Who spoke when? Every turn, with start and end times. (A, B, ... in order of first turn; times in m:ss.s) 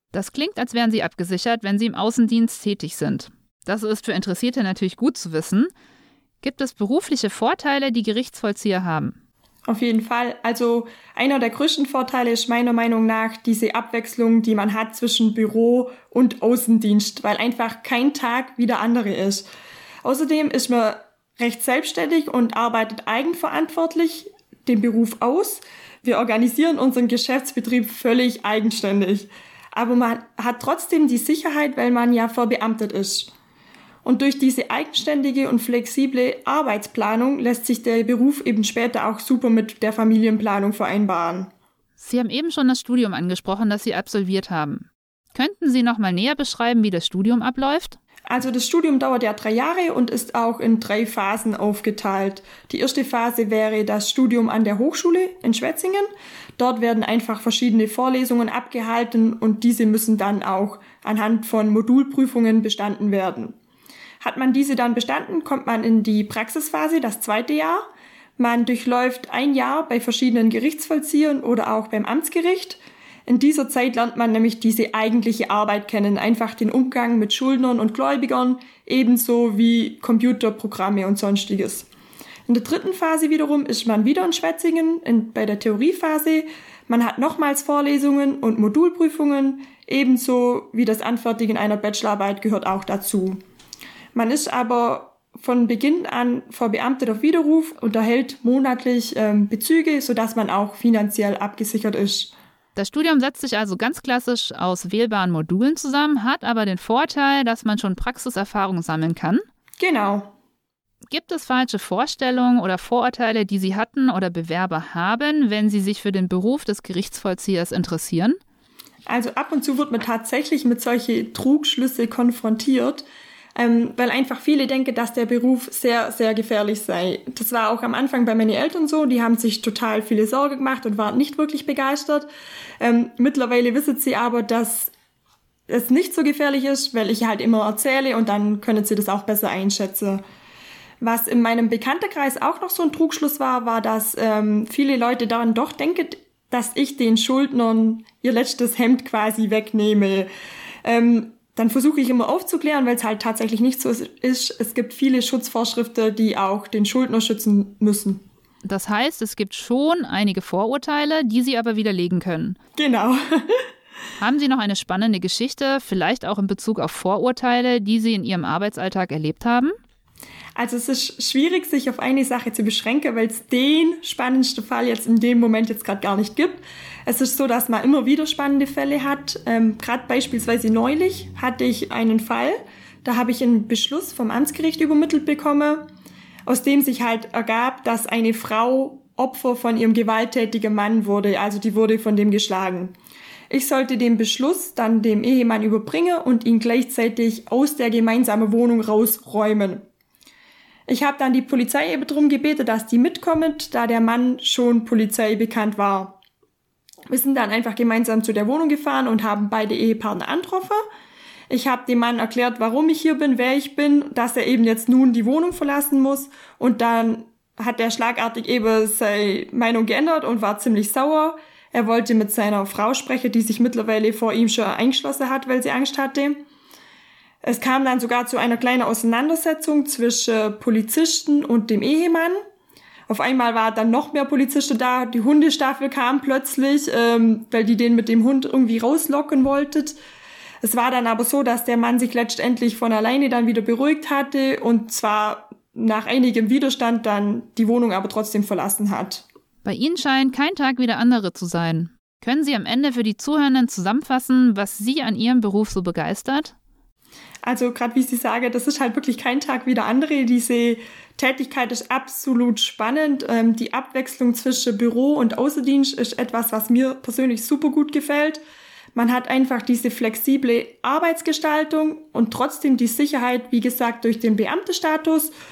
0:00.1-0:05.7 A
0:06.4-0:09.2 A
0:09.7-0:19.5 B
0:20.0-0:33.3 B
0:34.0-0:41.5 B
0:42.0-0:48.0 A
0:48.3-1:03.6 B
1:04.2-1:07.8 B
1:08.4-1:21.9 B
1:22.5-1:33.4 B
1:34.1-1:42.3 B
1:42.8-1:49.4 A
1:49.8-1:50.3 B
1:51.1-1:58.4 A
1:59.1-2:12.3 B
2:12.8-2:14.9 B
2:15.7-2:20.2 B
2:21.0-2:30.3 B
2:30.8-2:38.2 B
2:38.6-2:42.6 A
2:42.8-2:43.6 B
2:44.2-2:49.7 A
2:50.6-3:05.8 B
3:06.5-3:12.9 B
3:13.5-3:19.8 B
3:20.9-3:26.2 B
3:27.1-3:30.8 B
3:31.5-3:46.4 B
3:47.4-3:52.4 B
3:53.1-4:00.0 B
4:00.6-4:09.2 B
4:09.6-4:16.6 A
4:17.4-4:28.4 B
4:28.9-4:35.3 B